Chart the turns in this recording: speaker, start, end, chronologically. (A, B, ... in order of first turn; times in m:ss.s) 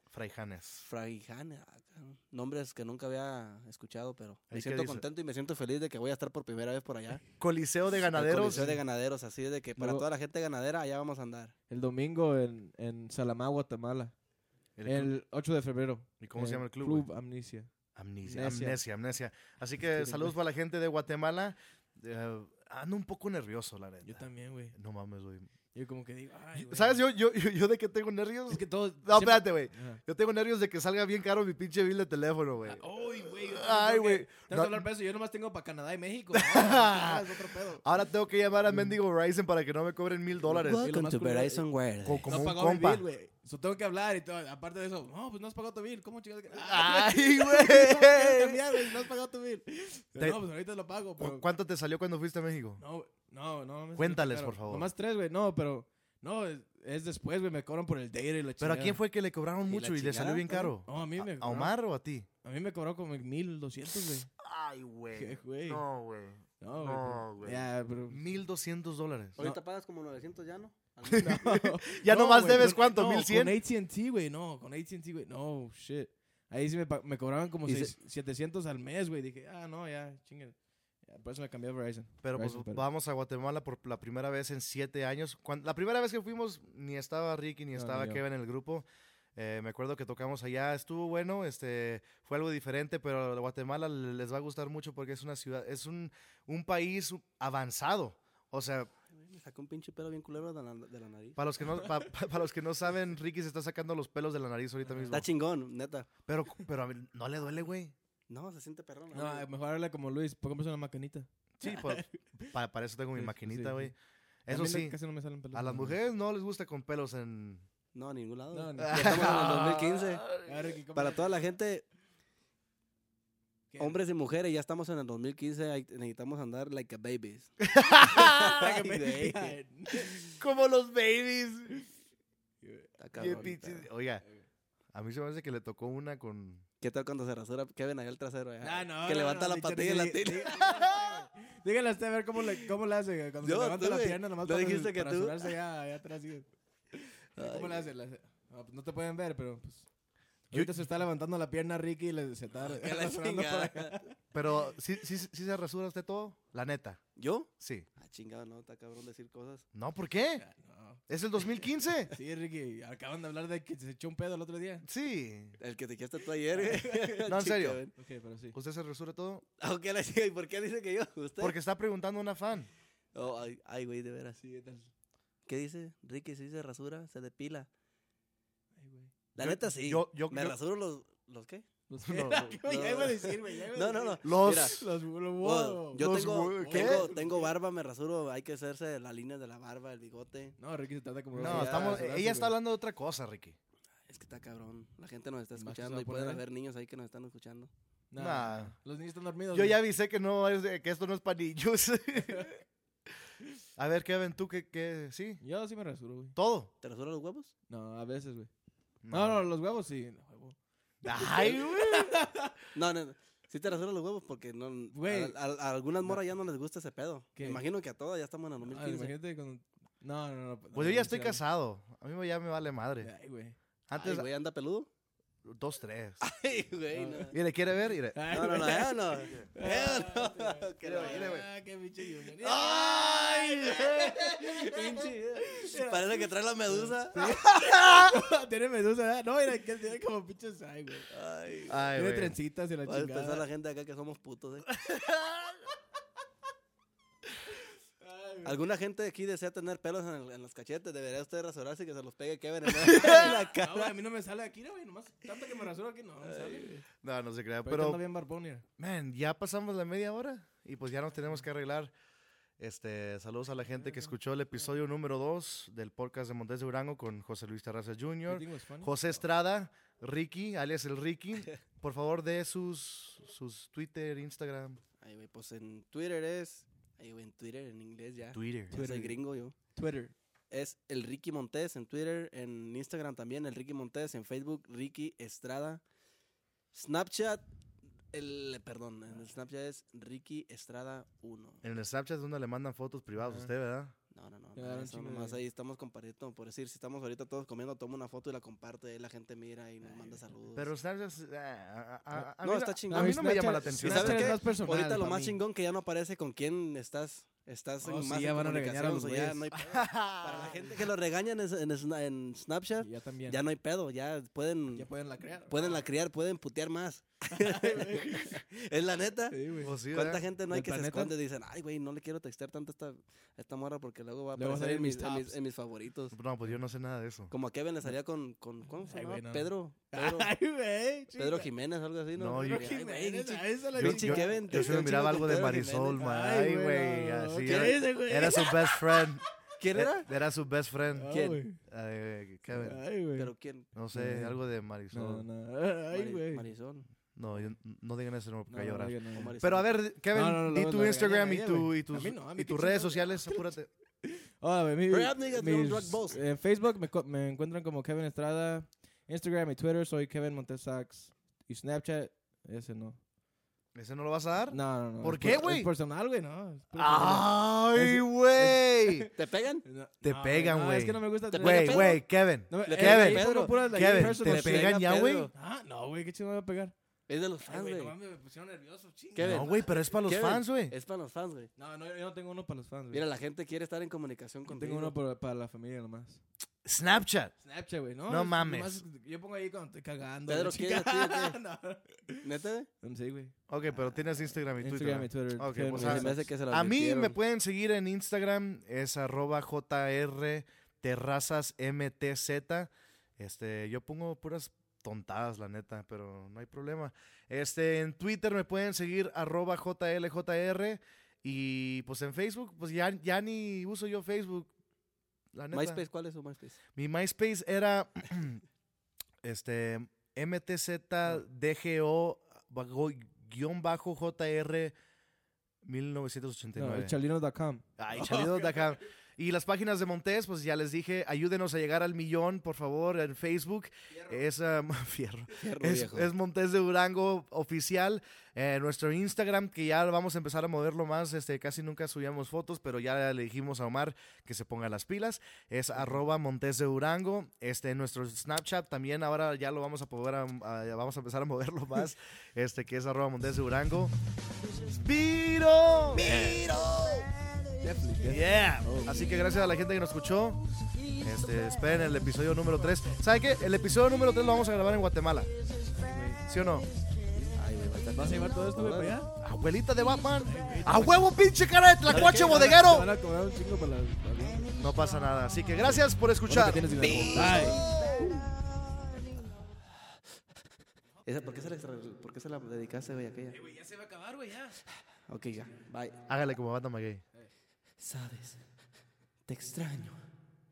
0:00.1-0:00.8 A
0:00.8-0:07.2 B
0:04.5-0:05.0 A
0:07.4-0:08.7 A
0:08.1-0:11.5 B
0:08.4-0:08.8 C
0:09.8-0:10.0 C
0:11.7-0:14.1 C
0:14.8-0:15.1 A
0:14.8-0:17.7 C
0:16.2-0:17.1 A
0:17.9-0:25.5 A
0:18.2-0:18.8 C
0:19.9-0:20.3 C
0:24.0-0:24.8 C
0:25.7-0:27.0 C
0:26.6-0:34.9 A
0:28.5-0:30.0 C
0:32.6-0:37.9 C
0:36.3-0:37.3 A
0:37.8-0:40.8 A
0:38.7-0:39.0 C
0:40.5-0:42.3 B
0:40.5-0:41.6 C
0:42.0-0:43.0 A
0:42.2-0:51.4 C
0:46.5-0:48.6 A
0:51.2-0:52.8 A
0:52.8-0:59.0 C
0:54.0-0:54.9 A
0:58.6-1:02.2 A
0:59.7-1:00.7 B
1:00.6-1:01.7 C
1:02.4-1:04.3 C
1:04.4-1:09.4 A
1:05.1-1:05.8 C
1:06.6-1:08.2 C
1:09.4-1:11.3 B
1:11.1-1:22.8 C
1:11.1-1:13.6 A
1:17.7-1:17.9 B
1:22.2-1:38.9 A
1:27.7-1:28.2 C
1:39.1-1:41.4 B
1:41.4-1:45.3 A
1:44.8-1:45.2 C
1:45.1-1:46.0 B
1:46.2-1:47.9 A
1:48.3-1:49.4 B
1:49.1-1:52.5 C
1:51.6-1:53.9 A
1:53.1-1:53.9 C
1:54.4-1:55.0 A
1:54.5-1:56.0 C
1:55.5-1:57.6 A
1:57.9-2:00.2 B
1:58.5-1:59.5 C
1:58.8-2:00.5 A
2:00.4-2:01.5 C
2:01.0-2:01.8 B
2:03.7-2:04.0 C
2:03.8-2:07.5 B
2:07.6-2:08.6 A
2:08.0-2:09.6 B
2:08.1-2:10.4 C
2:10.4-2:11.8 A
2:12.6-2:13.5 C
2:13.0-2:13.9 B
2:13.2-2:14.2 A
2:14.9-2:16.6 A
2:16.8-2:21.1 B
2:18.6-2:29.9 C
2:23.4-2:25.5 B
2:27.4-2:27.9 B
2:30.5-2:34.2 C
2:30.5-2:30.8 A
2:32.6-2:34.0 B
2:34.3-2:37.0 A
2:37.2-2:37.5 B
2:37.6-2:37.9 A
2:38.0-2:39.6 B
2:39.7-2:40.4 A
2:40.4-2:41.0 C
2:41.1-2:42.1 A
2:42.1-2:44.8 C
2:44.8-2:45.6 A
2:45.6-2:47.9 B
2:46.5-2:47.3 C
2:47.2-2:47.8 A
2:48.0-2:48.6 C
2:48.5-2:49.4 A
2:49.6-2:51.5 B
2:51.4-2:52.7 A
2:53.1-2:54.4 B
2:54.4-2:54.9 C
2:55.5-2:57.7 B
2:58.7-2:59.1 C
2:59.4-3:01.6 B
2:59.4-3:00.6 A
3:01.9-3:07.5 C
3:02.0-3:02.6 A
3:02.6-3:04.8 B
3:04.2-3:04.8 A
3:05.4-3:10.6 B
3:06.0-3:07.1 A
3:10.6-3:12.6 C
3:11.4-3:12.1 B
3:11.4-3:13.6 A
3:14.1-3:17.7 B
3:15.5-3:16.4 C
3:18.1-3:19.8 C
3:18.2-3:18.7 A
3:19.5-3:22.6 A
3:23.8-3:25.4 A
3:25.4-3:26.4 C
3:26.4-3:26.7 A
3:26.8-3:27.5 B
3:27.7-3:28.5 C
3:29.0-3:29.4 A
3:29.1-3:30.6 C
3:31.0-3:32.1 A
3:31.1-3:32.5 C
3:32.7-3:39.1 B
3:34.9-3:35.4 C
3:37.4-3:37.6 C
3:38.6-3:41.4 C
3:40.7-3:43.1 A
3:43.0-3:43.6 C
3:43.9-3:44.3 A
3:43.9-3:44.9 B
3:45.4-3:46.2 A
3:46.2-3:47.3 B
3:46.9-3:47.3 C
3:47.3-3:48.2 A
3:48.1-4:03.4 C
3:48.3-3:51.4 B
3:51.0-3:51.4 A
3:52.4-3:57.5 B
4:01.1-4:01.8 B
4:01.7-4:02.4 A
4:02.8-4:04.6 B
4:04.8-4:05.4 C
4:08.0-4:08.6 C
4:08.4-4:13.9 B
4:12.8-4:16.8 C
4:16.2-4:16.8 B
4:17.0-4:18.0 A
4:17.6-4:18.6 C
4:18.8-4:21.9 A
4:22.6-4:34.8 A
4:23.6-4:24.2 C
4:28.3-4:29.2 C
4:35.0-4:39.5 B
4:38.3-4:38.7 A
4:38.7-4:39.2 C
4:39.7-4:40.1 C
4:40.5-4:45.8 B
4:46.7-4:47.4 B
4:48.1-4:51.6 B
4:51.6-4:53.9 A
4:53.2-4:53.5 C
4:54.1-5:00.7 B
4:54.5-4:55.4 C
4:59.8-5:00.2 C
5:00.5-5:04.4 A
5:02.4-5:14.9 B
5:02.9-5:05.4 C
5:07.8-5:09.6 C
5:09.6-5:10.6 A
5:12.8-5:13.4 C
5:14.7-5:15.8 C
5:15.5-5:19.4 B
5:17.3-5:18.4 C
5:19.3-5:19.8 C
5:19.6-5:20.2 A
5:19.9-5:26.1 B
5:20.5-5:21.1 C
5:24.3-5:25.4 C
5:26.1-5:27.3 A
5:27.3-5:30.3 B
5:28.8-5:31.5 C
5:31.2-5:36.0 B
5:32.2-5:32.7 A
5:32.4-5:35.1 C
5:33.8-5:42.8 A
5:36.0-5:39.3 C
5:37.4-5:37.7 B
5:39.6-5:40.1 B
5:41.0-5:41.6 C
5:41.1-5:41.4 B
5:42.5-5:43.3 C
5:43.2-5:43.7 B
5:43.7-5:45.2 A
5:43.9-5:46.4 C
5:45.9-5:46.9 B
5:47.2-5:53.7 A
5:48.5-5:49.4 C
5:49.1-5:49.7 B
5:50.1-5:53.4 C
5:54.0-6:03.0 C
5:54.9-5:56.2 B
6:03.7-6:05.7 A
6:04.5-6:14.8 C
6:06.7-6:09.1 A
6:09.2-6:09.6 B
6:10.0-6:15.3 A
6:11.3-6:12.0 B
6:12.6-6:15.3 B
6:15.3-6:16.7 C
6:17.1-6:17.9 B
6:17.4-6:19.6 C
6:19.2-6:21.5 B
6:19.2-6:20.7 A
6:21.6-6:23.0 C
6:22.9-6:24.9 B
6:24.5-6:26.2 C
6:26.6-6:27.3 A
6:27.4-6:32.3 C
6:28.1-6:28.8 A
6:30.3-6:31.4 B
6:32.2-6:32.7 B
6:32.8-6:33.3 C
6:33.5-6:54.5 A
6:34.6-6:36.3 C
6:35.7-6:37.2 B
6:55.3-6:55.8 A
6:55.5-6:56.6 B
6:56.7-6:58.4 A
6:59.2-7:04.7 A
7:05.6-7:07.0 A
7:06.6-7:08.8 C
7:07.8-7:33.9 A
7:13.9-7:14.2 C
7:15.3-7:16.1 B
7:34.7-7:36.2 A
7:36.0-7:36.6 C
7:36.0-7:37.0 B
7:37.6-7:39.1 C
7:38.0-7:40.4 A
7:41.0-7:45.3 A
7:45.8-7:46.2 C
7:46.3-7:46.7 A
7:47.3-7:49.0 B
7:47.9-7:49.1 C
7:49.2-7:52.9 A
7:50.1-7:51.0 C
7:51.8-7:54.5 C
7:54.6-7:57.5 A
7:56.2-7:57.6 C
7:56.8-7:58.3 B
8:01.0-8:03.4 B
8:03.3-8:04.6 C
8:05.1-8:06.0 B
8:06.1-8:07.0 A
8:07.8-8:08.4 B
8:09.3-8:10.0 B